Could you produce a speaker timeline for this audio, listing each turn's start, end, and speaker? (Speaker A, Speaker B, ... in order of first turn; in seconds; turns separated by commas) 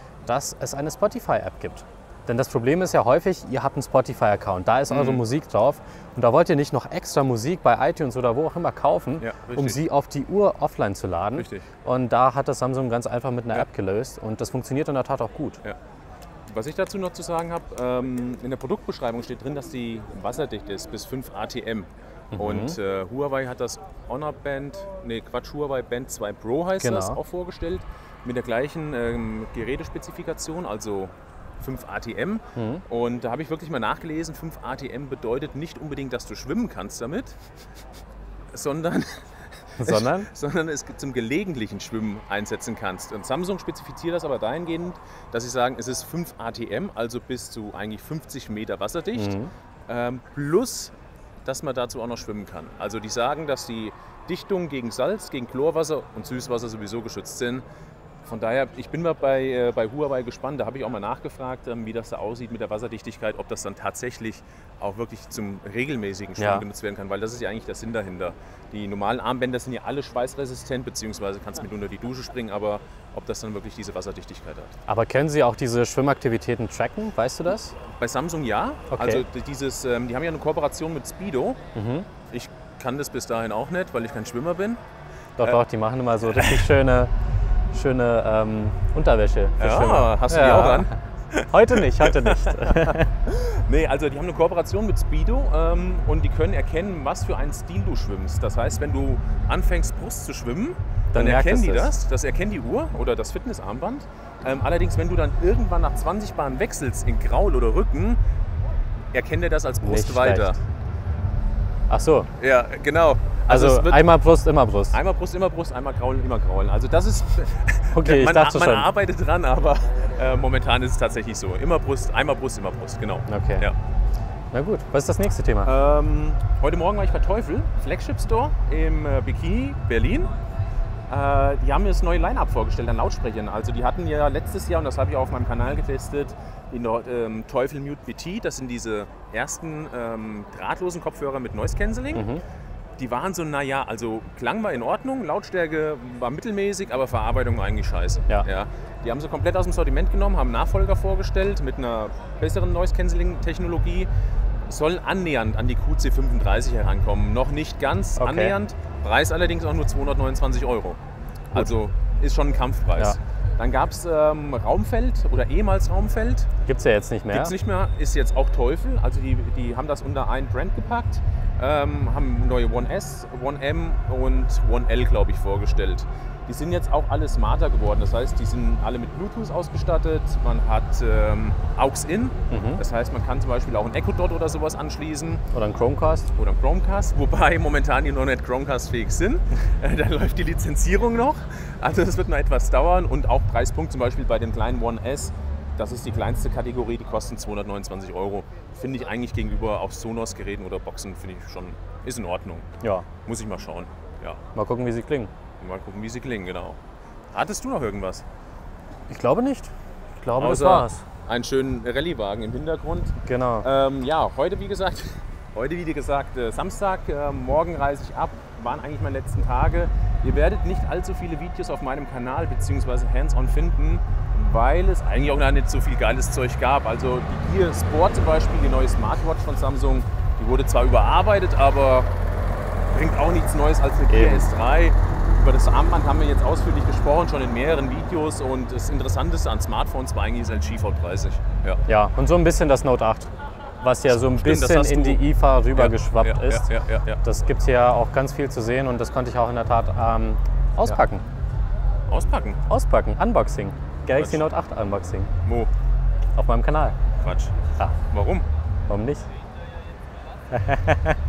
Speaker A: 0.2-15.6, Speaker B: 4.9-5.2, Speaker B: 9.2-9.8, Speaker B: 11.4-11.7, Speaker B: 16.5-37.4, Speaker A: 22.3-22.8, Speaker A: 26.8-27.2, Speaker A: 32.6-32.8, Speaker B: 38.5-49.4, Speaker A: 39.8-40.3, Speaker A: 49.1-49.5, Speaker B: 49.9-50.9, Speaker B: 51.5-57.6, Speaker B: 58.2-74.7, Speaker A: 66.4-66.6, Speaker A: 74.9-77.8, Speaker B: 77.8-81.6, Speaker A: 78.9-79.2, Speaker A: 81.8-82.1, Speaker B: 82.3-84.8, Speaker A: 85.4-87.1, Speaker B: 86.3-86.7, Speaker A: 87.7-90.9, Speaker B: 89.6-108.2, Speaker A: 91.5-93.1, Speaker A: 101.1-101.9, Speaker B: 109.1-110.6, Speaker A: 109.8-110.6, Speaker A: 111.9-112.3, Speaker B: 112.4-114.1, Speaker A: 113.5-115.0, Speaker B: 114.9-123.8, Speaker A: 117.9-118.9, Speaker A: 123.3-123.7, Speaker A: 124.5-125.7, Speaker B: 125.6-130.3, Speaker B: 131.1-142.2, Speaker A: 142.1-142.4, Speaker B: 143.0-154.1, Speaker B: 154.7-161.0, Speaker A: 158.2-158.5, Speaker B: 161.5-166.5, Speaker A: 166.7-167.5, Speaker B: 167.3-185.4, Speaker A: 182.5-182.8, Speaker A: 185.5-186.3, Speaker B: 186.3-202.7, Speaker A: 202.8-203.1, Speaker B: 203.2-204.4, Speaker A: 204.5-205.3, Speaker B: 205.6-206.8, Speaker B: 207.3-208.2, Speaker A: 209.1-211.0, Speaker B: 210.4-232.1, Speaker A: 213.2-213.7, Speaker B: 232.9-241.8, Speaker A: 234.1-234.5, Speaker A: 241.9-246.7, Speaker B: 244.1-247.2, Speaker A: 247.2-251.2, Speaker B: 252.1-252.6, Speaker A: 252.7-255.3, Speaker B: 254.1-254.4, Speaker B: 255.4-255.7, Speaker A: 256.4-257.0, Speaker B: 257.2-257.5, Speaker B: 258.1-258.5, Speaker A: 258.9-259.3, Speaker A: 260.5-261.1